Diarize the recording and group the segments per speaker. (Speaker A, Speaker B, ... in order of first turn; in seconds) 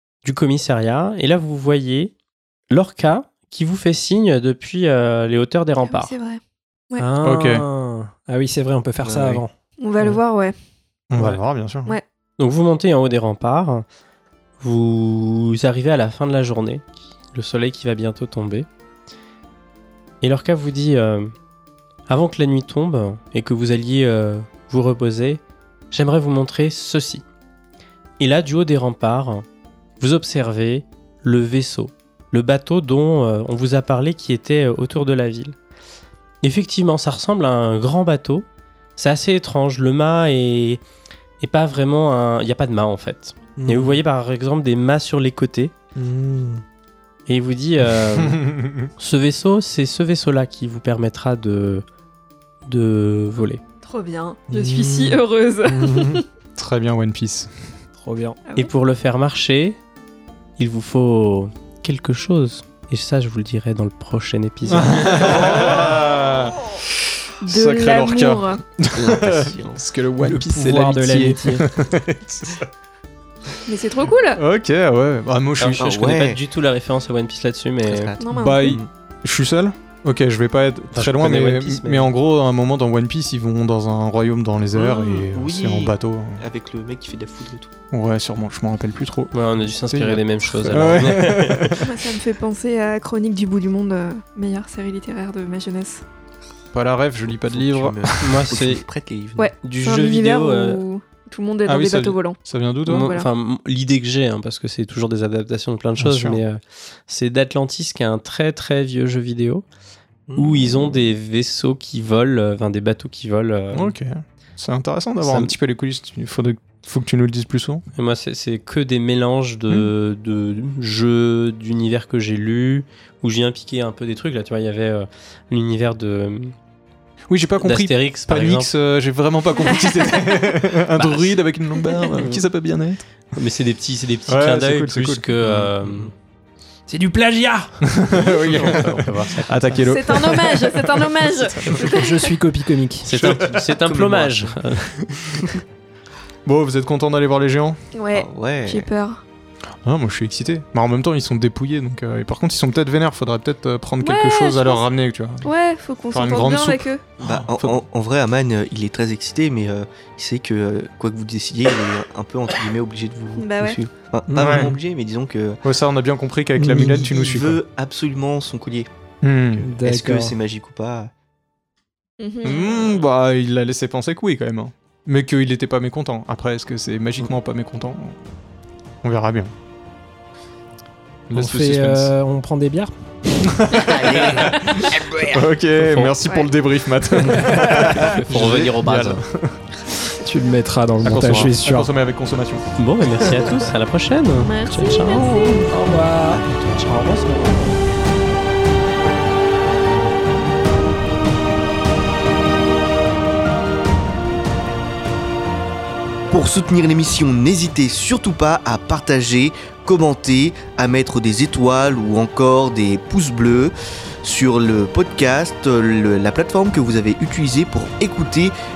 Speaker A: 0.2-2.1, 2.7-6.1, 12.4-13.8, 14.6-18.7, 20.2-21.3, 22.1-27.2, 28.2-29.4, 30.0-35.6, 36.4-40.8, 41.4-45.8, 47.3-51.9, 52.7-53.6, 58.6-59.8, 60.6-65.3, 75.6-78.1, 80.9-82.1, 89.3-91.8, 98.2-98.8, 99.6-100.8, 102.9-109.7, 110.3-113.9, 115.2-115.5, 118.0-126.5, 127.6-128.7, 131.0-131.4, 133.3-136.1, 138.2-139.9, 143.1-144.9, 185.7-186.2, 187.8-189.2, 192.8-195.7
Speaker B: 5.9-7.1, 9.8-10.6, 53.8-56.2, 67.4-68.6, 73.7-74.4, 78.2-78.8, 91.8-96.0, 99.4-102.4, 102.9-103.3, 129.6-130.6, 139.8-142.4, 147.9-149.2, 154.0-154.9, 155.4-157.0, 163.4-163.8, 172.2-173.0, 194.4-195.9
Speaker C: 7.0-9.5, 43.6-44.0, 46.0-46.6, 54.5-56.2, 58.0-58.4, 70.2-71.7, 136.9-138.0, 141.7-143.1, 169.6-170.3, 181.3-183.6, 187.4-188.0, 190.2-191.9, 195.7-197.8
Speaker D: 7.2-7.7, 11.1-12.0, 48.1-48.9, 56.6-57.5, 64.7-66.8, 67.4-72.7, 74.3-75.8, 78.3-86.4, 87.9-92.0, 96.7-98.4, 101.7-103.2, 106.0-106.4, 113.7-117.8, 127.3-133.0, 134.3-135.3, 137.9-141.8, 143.1-143.7, 146.4-147.8, 149.8-155.5, 156.1-157.8, 164.3-164.8, 165.6-167.6, 169.2-169.7, 172.4-178.2, 179.0-179.5, 181.3-182.1, 183.4-189.7, 191.0-192.6
Speaker E: 9.0-9.4, 65.5-65.8, 68.9-69.8, 75.8-76.4, 77.8-78.9, 84.8-87.7, 97.4-99.5, 110.3-110.8, 135.5-136.1, 143.6-144.6, 148.1-148.9, 157.2-165.6, 166.7-168.9, 169.5-171.1, 184.0-185.2, 196.2-196.8, 206.3-218.5